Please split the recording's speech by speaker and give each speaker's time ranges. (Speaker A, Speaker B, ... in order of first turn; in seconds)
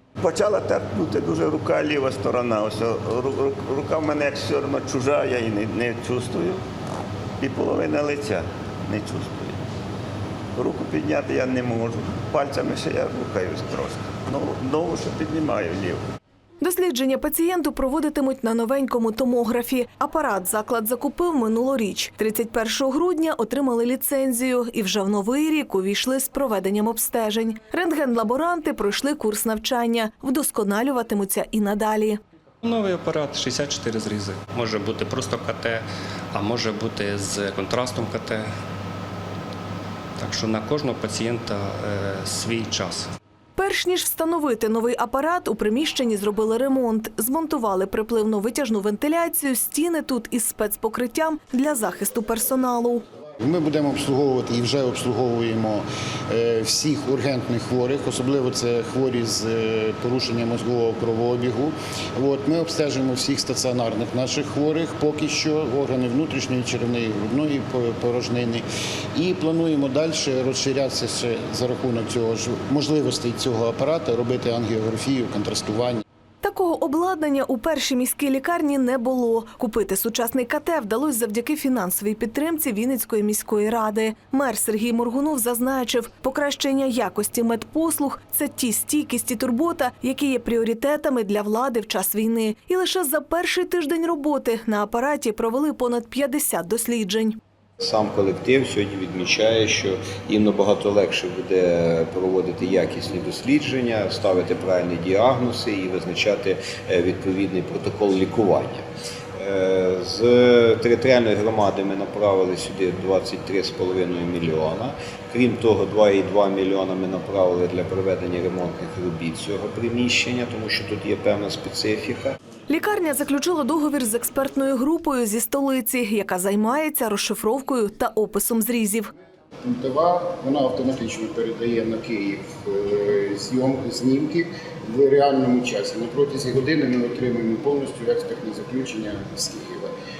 Speaker A: 0.2-6.6, 7.4-9.6, 10.6-16.0
Speaker B: 16.6-32.2, 43.6-53.0, 76.4-97.4, 122.7-129.1
Speaker C: 32.6-38.5, 40.2-43.1
Speaker D: 53.4-68.6, 69.2-76.0, 129.6-139.9
Speaker E: 97.8-108.8, 109.4-122.3